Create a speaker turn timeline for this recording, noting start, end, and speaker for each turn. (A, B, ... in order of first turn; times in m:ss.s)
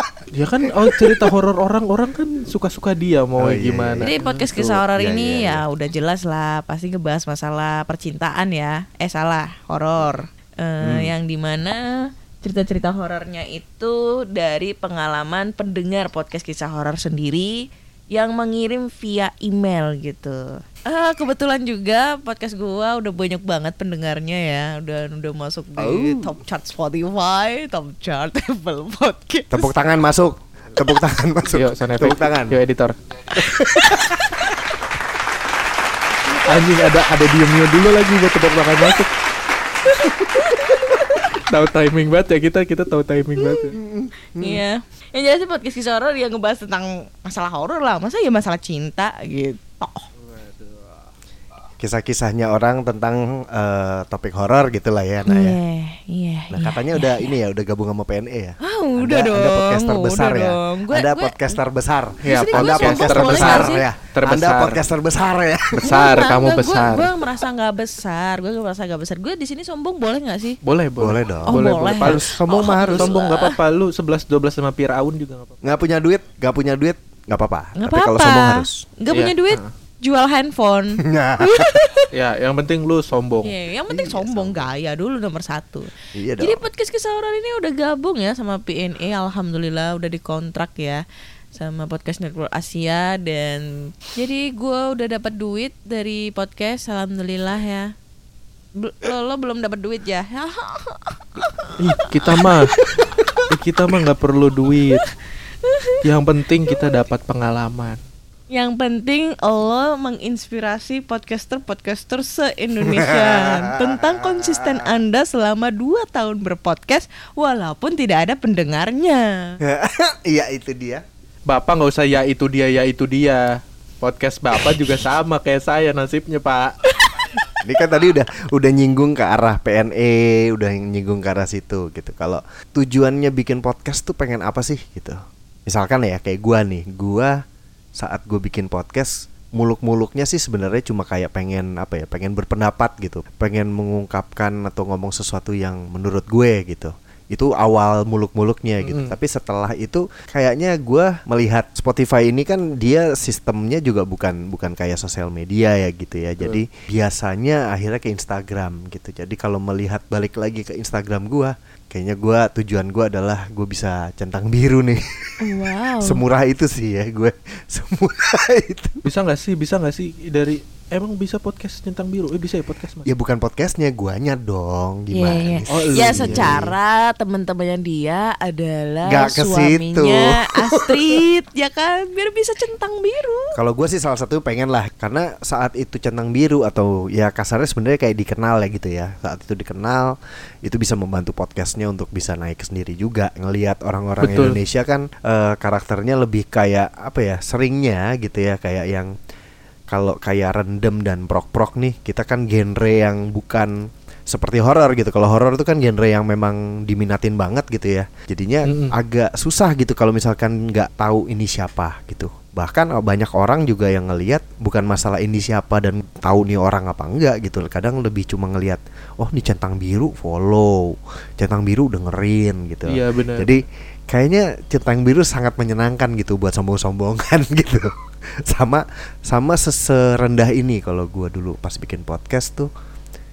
0:00.3-0:04.8 A
0:00.9-0:01.2 B
0:03.4-0:04.1 B
0:04.0-0:29.7 C
0:04.8-0:05.6 B
0:10.8-0:11.1 B
0:25.8-0:26.4 B
0:29.5-0:32.6 B
0:31.5-0:33.0 A
0:33.4-0:34.4 B
0:36.4-0:39.1 A
0:39.9-0:41.3 C
0:41.3-0:43.8 A
0:43.7-0:44.6 B
0:44.4-0:50.1 C
0:50.4-0:50.9 A
0:51.8-0:55.6 B
0:55.3-0:57.4 C
0:56.5-1:06.0 B
0:58.6-1:01.6 C
1:02.2-1:03.8 C
1:02.2-1:04.8 A
1:05.8-1:07.1 A
1:05.8-1:10.6 C
1:10.6-1:15.6 A
1:11.0-1:13.1 B
1:11.5-1:13.6 C
1:15.6-1:18.9 B
1:17.8-1:22.1 C
1:19.1-1:19.7 A
1:21.0-1:21.8 B
1:22.1-1:23.5 A
1:23.4-1:31.0 C
1:23.9-1:24.7 B
1:26.1-1:26.6 B
1:31.5-1:37.9 C
1:38.8-1:43.4 C
1:41.8-1:42.8 A
1:43.5-1:45.1 A
1:45.6-1:46.0 C
1:46.0-1:48.0 A
1:48.5-1:59.6 C
1:52.8-1:54.9 B
1:59.6-2:01.0 B
2:01.5-2:07.0 A
2:07.6-2:17.4 B
2:18.0-2:45.3 B
2:28.8-2:29.2 A
2:45.4-2:46.2 C
2:46.0-2:49.0 B
2:49.0-2:53.1 A
2:53.1-2:56.8 B
2:55.1-3:03.6 C
2:55.7-2:56.6 A
2:59.1-3:01.2 B
3:03.6-3:19.1 B
3:14.2-3:14.6 A
3:19.9-3:52.7 B
3:28.6-3:28.9 A
3:42.9-3:43.6 A